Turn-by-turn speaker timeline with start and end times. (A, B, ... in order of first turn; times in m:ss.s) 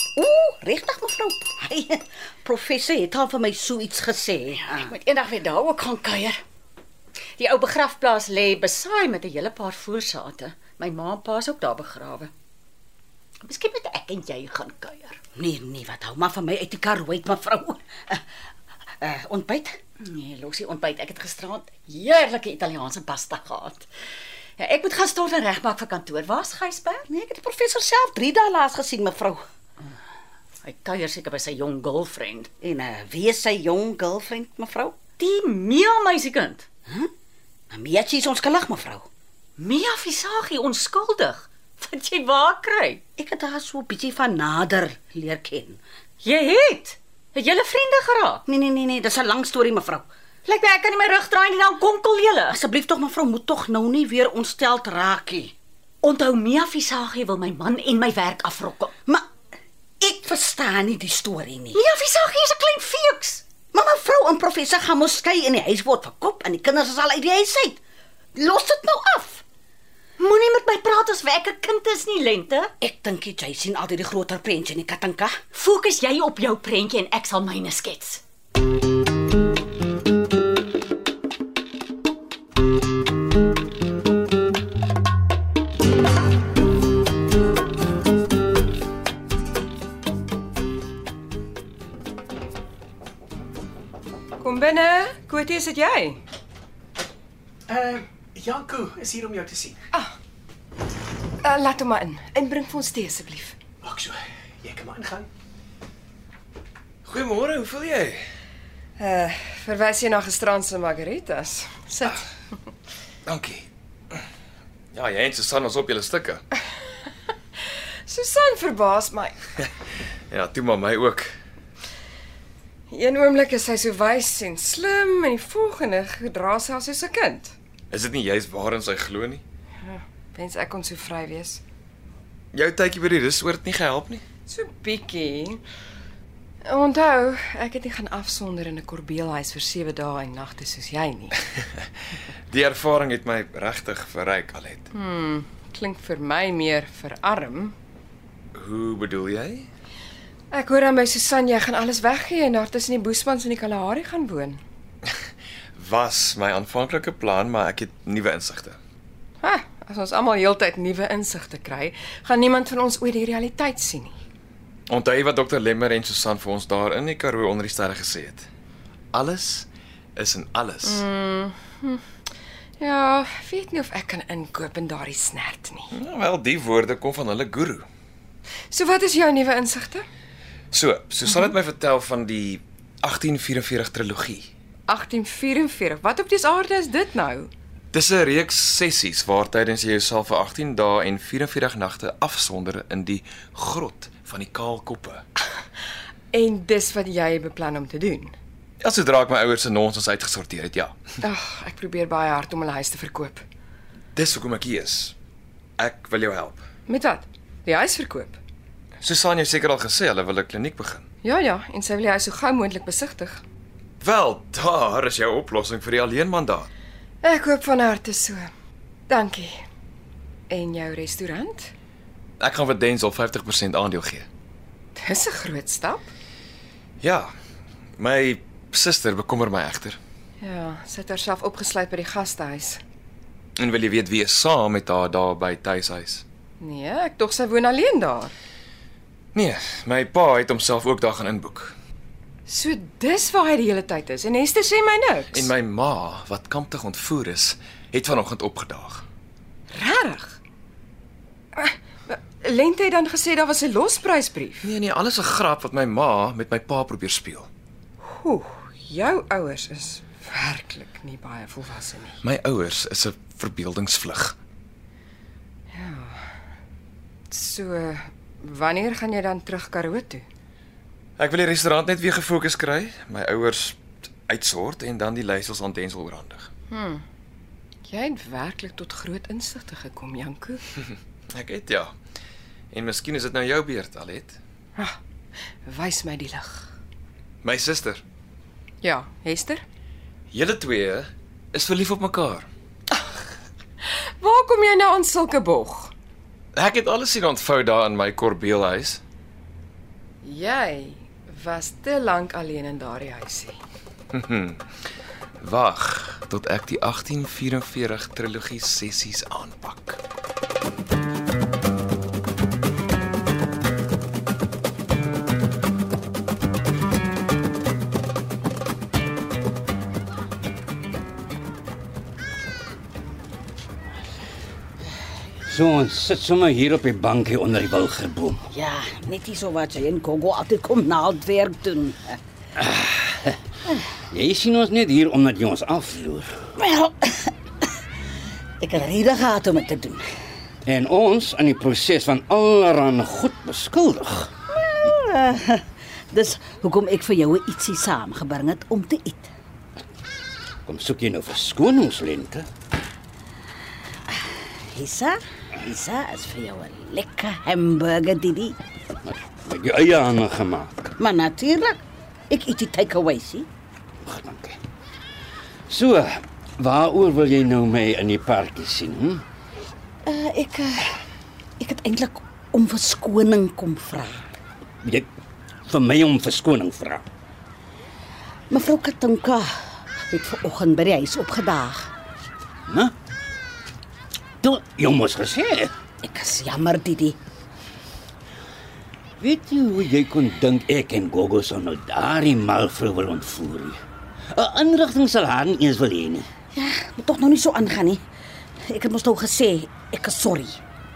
0:00.2-0:04.9 A
0:04.6-0:06.4 B
0:07.4-0:12.3 B
0:13.4-0:15.2 B
0:15.4-0:18.2 A
0:19.0-0:19.8 A
0:20.0-0:23.9 B
0:24.6-0:27.0 B
0:27.1-0:29.4 A
0:30.6-0:32.5 B
0:32.6-0:34.9 A
0:35.2-0:36.6 B
0:37.7-0:39.0 A
0:39.6-0:43.0 B
0:43.2-0:45.8 A
0:46.2-0:48.4 B
0:48.4-0:50.0 A
0:50.4-0:52.6 B
0:52.5-0:55.5 A
0:56.0-0:58.9 B
1:00.0-1:01.8 A
1:01.7-1:03.4 B
1:03.7-1:07.8 A
1:08.3-1:09.4 A
1:10.2-1:12.7 B
1:12.8-1:15.3 A
1:15.5-1:18.2 B
1:34.4-1:36.2 C
1:37.7-1:39.8 D
1:41.4-1:43.6 C
1:43.8-1:45.3 D
1:47.0-1:48.2 E
1:49.0-1:52.2 C
1:53.2-1:54.2 E
1:54.9-1:56.4 E
1:58.0-1:59.4 C
2:00.3-2:01.3 E
2:02.9-2:07.6 C
2:07.9-2:09.4 E
2:09.8-2:11.6 C
2:12.5-2:14.2 E
2:14.5-2:15.6 C
2:16.6-2:21.3 C
2:22.5-2:24.9 E
2:24.9-2:27.7 C
2:28.5-2:29.7 E
2:30.5-2:34.6 C
2:35.7-2:38.8 E
2:39.4-2:44.2 C
2:44.9-2:48.5 E
2:49.1-2:51.0 E
2:50.8-2:52.0 C
2:52.8-2:55.9 C
2:55.9-2:57.9 E
2:58.7-3:00.0 C
3:00.7-3:04.5 E
3:01.3-3:01.5 C
3:04.9-3:07.5 C
3:07.9-3:15.2 E
3:16.3-3:18.3 C
3:18.8-3:21.0 E
3:21.2-3:23.4 C
3:24.1-3:25.1 E
3:25.8-3:26.6 E
3:26.9-3:28.4 C
3:29.0-3:31.0 E
3:31.2-3:33.4 C
3:34.0-3:36.7 E
3:37.2-3:38.5 C
3:39.1-3:39.6 C
3:40.5-3:41.7 C
3:42.4-3:44.3 E
3:45.0-3:46.1 C
3:47.0-3:47.3 E
3:48.0-3:50.0 E
3:50.4-3:52.8 C
3:53.6-3:56.2 E
3:56.6-3:58.3 C
3:59.3-4:01.8 E
4:02.5-4:05.5 C
4:05.3-4:09.0 E
4:09.7-4:10.4 C
4:11.5-4:14.7 C
4:14.6-4:17.5 E
4:18.0-4:22.2 C
4:22.2-4:24.4 E
4:25.7-4:26.3 C
4:27.3-4:30.2 C
4:31.2-4:36.5 E
4:36.7-4:37.0 C
4:37.8-4:40.6 C
4:41.3-4:41.9 E
4:42.7-4:44.4 E
4:45.6-4:46.7 C
4:47.4-4:48.0 E
4:48.8-4:49.6 C
4:50.3-4:52.5 E
4:53.8-4:55.9 C
4:56.5-4:59.0 E
5:00.2-5:03.6 C
5:04.1-5:04.6 E
5:05.4-5:10.0 E
5:25.4-5:28.4 F
5:28.5-5:32.2 A
5:32.6-5:33.4 F
5:34.1-5:36.4 F
5:36.6-5:37.3 A
5:38.6-5:40.0 A
5:40.6-5:44.3 F
5:44.5-5:49.3 A
5:50.6-5:52.5 F
5:54.1-5:58.6 A
5:59.0-6:00.7 F
6:01.0-6:01.8 A
6:02.3-6:03.5 A
6:04.0-6:04.6 F
6:05.7-6:09.2 F
6:10.0-6:10.9 A
6:11.6-6:14.3 A
6:15.6-6:17.0 F
6:18.5-6:21.9 A
6:22.7-6:22.9 F
6:24.4-6:25.7 F
6:26.0-6:27.2 A
6:29.2-6:33.8 F
6:34.3-6:36.3 F
6:36.6-6:38.0 A
6:38.7-6:40.6 A